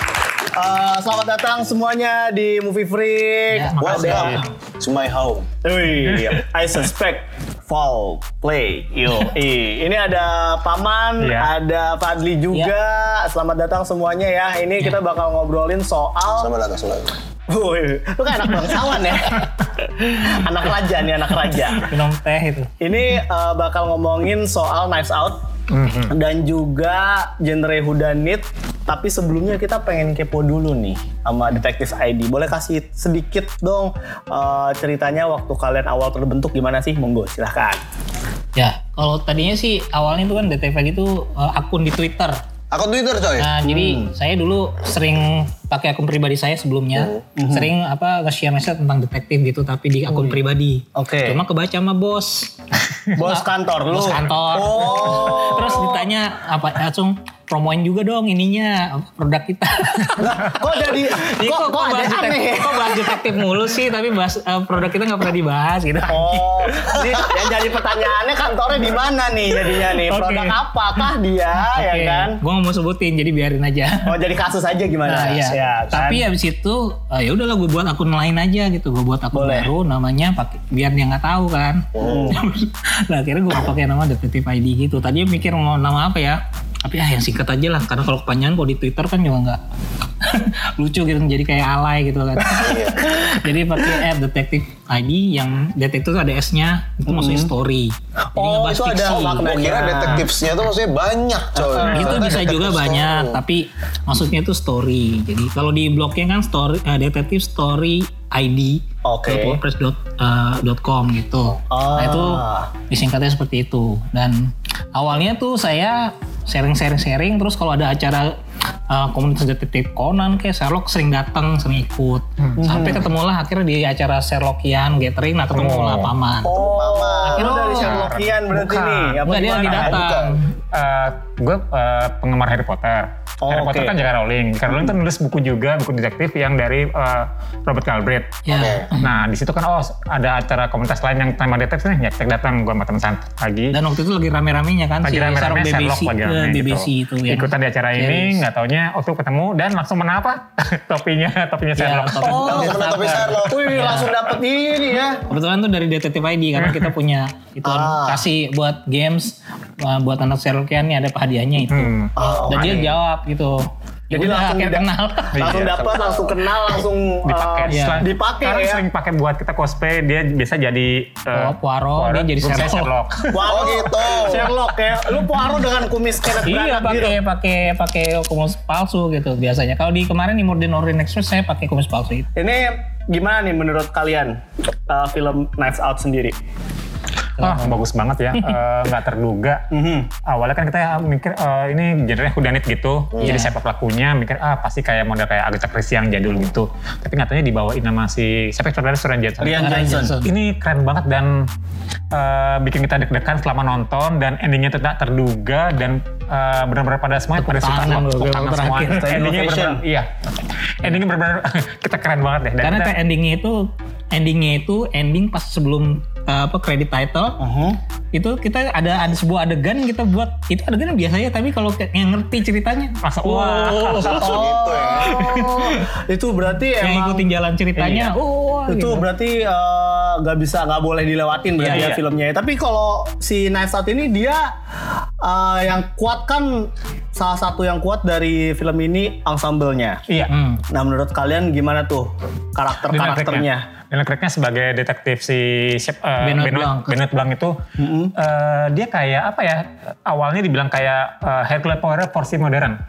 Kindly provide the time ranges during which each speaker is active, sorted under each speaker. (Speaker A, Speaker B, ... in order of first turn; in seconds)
Speaker A: 0.5-4.4, 5.6-16.5, 17.5-21.9, 22.8-25.4, 26.1-37.8, 43.6-44.1, 47.4-47.7, 50.1-50.4, 50.9-51.4, 53.1-56.1, 60.2-63.3, 66.1-72.4, 74.0-76.2, 79.3-79.7, 82.0-82.4, 97.1-97.5, 98.3-100.2, 101.6-102.3, 109.0-109.6, 111.7-112.7, 122.6-123.0, 126.4-130.1, 133.4-134.0, 152.2-152.8, 153.5-155.2, 157.6-158.2, 162.2-162.9, 164.1-168.8, 173.3-177.2, 182.3-184.3, 184.9-186.3, 189.7-190.1, 199.4-200.1, 208.9-209.8, 217.4-217.8, 223.7-228.1, 228.7-234.5, 235.2-240.0, 240.7-243.7, 247.8-248.1
Speaker B: 3.5-4.5, 21.7-22.7, 38.5-42.4, 43.4-52.5, 53.2-60.6, 61.2-67.0, 70.0-70.6, 71.6-74.2, 75.0-89.6, 90.2-99.5, 101.9-118.3, 118.9-126.5, 127.4-128.1, 129.2-130.5, 138.4-139.1, 143.7-148.4, 151.8-154.1, 155.3-161.9, 162.5-165.6, 167.7-168.1, 171.3-172.9, 176.4-182.3, 187.4-187.8, 193.2-193.5, 199.6-200.3, 207.4-209.3, 212.6-217.4, 218.1-224.4, 225.0-225.8, 226.8-229.0, 231.6-231.9, 240.3-240.6, 246.2-246.9
Speaker C: 3.8-5.5, 16.4-17.1, 42.7-43.5, 47.0-47.2, 81.9-82.3, 92.5-93.0, 99.2-103.4, 126.5-127.8, 129.7-130.4, 138.5-138.9, 152.3-153.6, 162.2-162.5, 165.4-166.5, 173.4-174.5, 224.1-225.2
Speaker D: 3.9-4.3, 11.2-11.5, 25.7-26.1, 122.4-122.8, 125.5-126.1, 127.4-129.9, 130.7-138.4, 139.0-143.7, 145.0-152.7, 156.6-156.9, 161.7-162.9, 165.3-165.7, 167.2-173.4, 187.4-189.6, 190.2-201.5, 202.1-210.1, 210.8-212.9, 223.0-224.3, 231.7-232.0, 242.9-247.6, 248.2-252.8